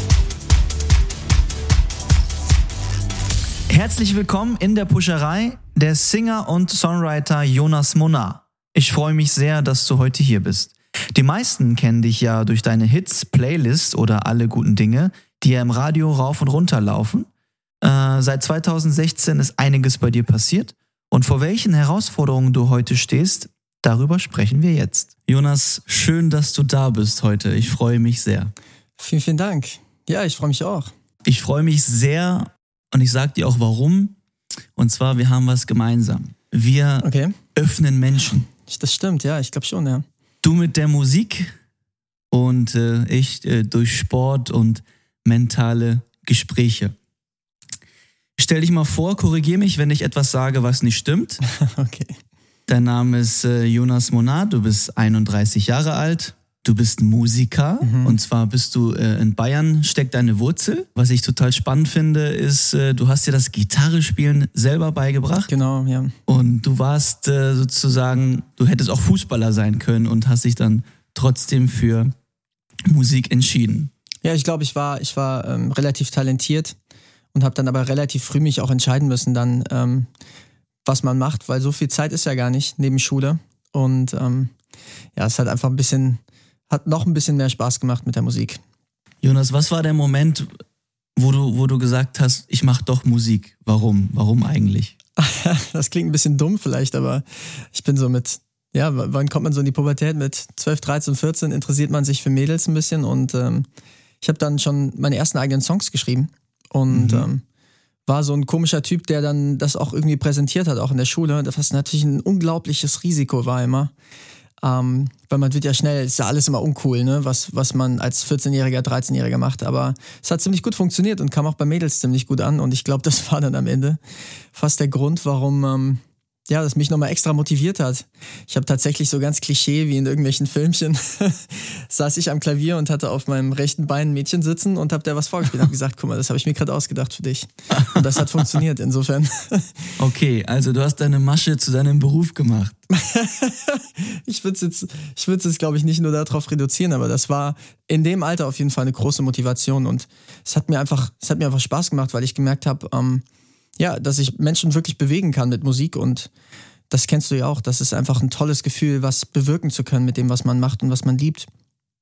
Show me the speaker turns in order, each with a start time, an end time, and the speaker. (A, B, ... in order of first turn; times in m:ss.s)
0:03.7-0:17.3 A
0:17.8-0:28.5 A
0:29.0-0:30.9 B
0:31.2-0:34.1 A
0:34.8-0:38.5 A
0:37.0-0:37.3 B
0:38.6-0:40.0 B
0:40.4-0:41.5 A
0:42.3-0:46.9 A
0:48.4-0:51.4 A
0:51.4-0:52.2 B
0:52.7-1:05.5 A
0:57.8-0:58.2 B
1:05.5-1:06.2 B
1:06.3-1:12.1 A
1:12.9-1:13.9 A
1:14.2-1:16.8 B
1:17.3-1:20.1 B
1:20.8-1:24.5 B
1:25.2-1:28.6 B
1:29.2-1:30.5 A
1:31.2-1:34.9 A
1:35.2-1:43.7 B
1:44.2-1:47.4 B
1:46.9-1:47.3 A
1:48.1-1:53.9 B
1:54.6-2:04.0 B
2:04.5-2:19.9 B
2:17.7-2:18.4 A
2:20.0-2:22.8 A
2:22.9-2:33.2 B
2:33.8-2:36.3 B
2:36.9-2:41.5 B